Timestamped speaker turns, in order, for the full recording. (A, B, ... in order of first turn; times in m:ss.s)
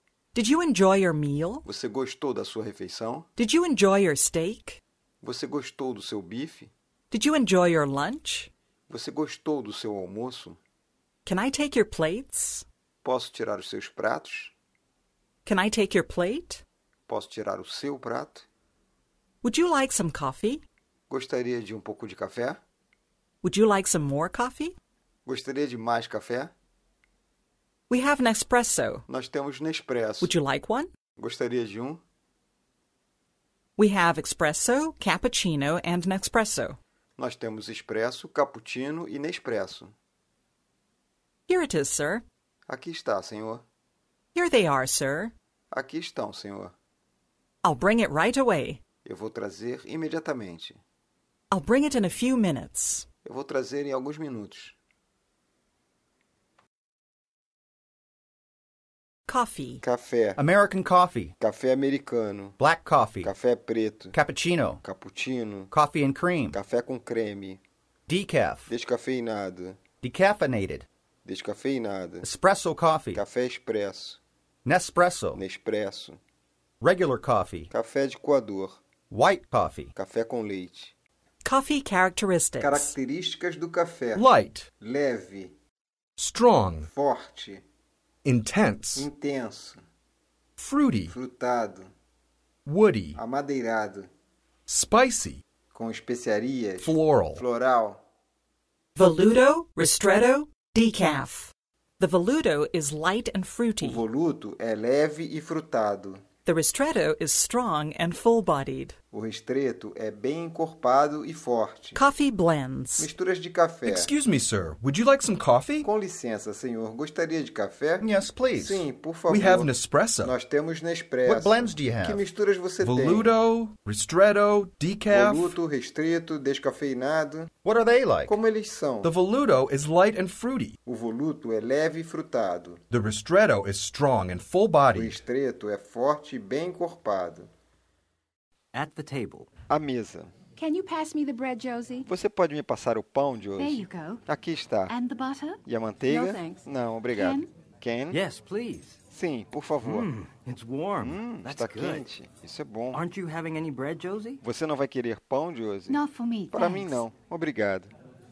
0:00.3-0:01.6 A
0:01.6-0:03.3 B
0:03.4-0:04.8 A
0:05.2-0:06.7 B
0:07.1-0:08.5 A
0:08.9-0:10.6 B
0:11.2-0:12.6 A
0:13.0-0:14.5 B
0:15.4-0:16.6 A
0:17.1-0:18.4 B
0:19.4-0:20.6 A
0:21.1-0:22.6 B
0:23.4-0:24.7 A
0:25.2-0:26.5 B
0:27.9-0:29.0 A
0:29.1-0:30.3 B
0:30.2-0:30.9 A
0:31.2-0:32.0 B
0:33.8-0:36.8 A
0:37.2-0:39.9 B
0:41.5-0:42.2 A
0:42.7-0:43.6 B
0:44.3-0:45.3 A
0:45.7-0:46.7 B
0:47.6-0:48.8 A
0:49.0-0:50.8 B
0:51.5-0:53.0 A
0:53.2-0:54.8 B
0:59.3-0:59.8 A
0:59.8-1:00.4 B
1:00.4-1:01.3 C
1:01.4-1:02.6 B
1:02.6-1:03.3 C
1:03.2-1:04.2 B
1:04.1-1:04.8 C
1:04.8-1:05.7 B
1:05.7-1:06.6 C
1:06.5-1:07.6 B
1:08.1-1:08.7 C
1:08.7-1:09.8 B
1:10.0-1:10.8 C
1:11.2-1:12.3 B
1:12.2-1:13.2 C
1:13.1-1:14.2 B
1:14.6-1:15.4 C
1:15.3-1:16.2 B
1:16.8-1:17.7 C
1:17.7-1:18.8 B
1:19.1-1:19.9 C
1:19.9-1:20.9 B
1:21.4-1:22.9 A
1:22.6-1:24.3 B
1:24.1-1:24.7 D
1:24.8-1:25.5 B
1:26.2-1:26.9 D
1:26.8-1:27.6 B
1:28.2-1:29.1 D
1:29.0-1:29.8 B
1:30.6-1:31.2 D
1:31.1-1:31.9 B
1:32.6-1:33.2 D
1:33.1-1:34.1 B
1:34.7-1:35.4 D
1:35.7-1:38.0 B
1:36.8-1:37.4 D
1:39.0-1:44.0 A
1:43.8-1:46.2 B
1:46.4-1:49.0 A
1:49.1-1:52.0 B
1:51.9-1:53.1 A
1:53.0-1:54.1 B
1:53.8-1:55.9 D
1:55.8-1:59.7 B
1:58.0-1:58.8 C
1:59.3-2:00.3 D
2:00.2-2:03.3 B
2:01.2-2:02.2 C
2:02.8-2:05.6 D
2:05.1-2:07.5 B
2:07.6-2:08.4 C
2:08.2-2:09.1 B
2:09.0-2:10.8 D
2:10.8-2:12.8 B
2:12.9-2:15.2 D
2:14.9-2:17.5 B
2:18.7-2:19.5 E
2:19.7-2:20.3 B
2:20.6-2:22.1 F
2:22.0-2:24.9 B
2:23.6-2:24.2 F
2:24.9-2:27.5 F
2:25.6-2:28.2 B
2:28.1-2:29.0 E
2:29.1-2:30.1 B
2:29.8-2:32.1 E
2:31.0-2:33.0 B
2:32.9-2:34.4 E
2:34.4-2:37.9 B
2:35.9-2:37.0 F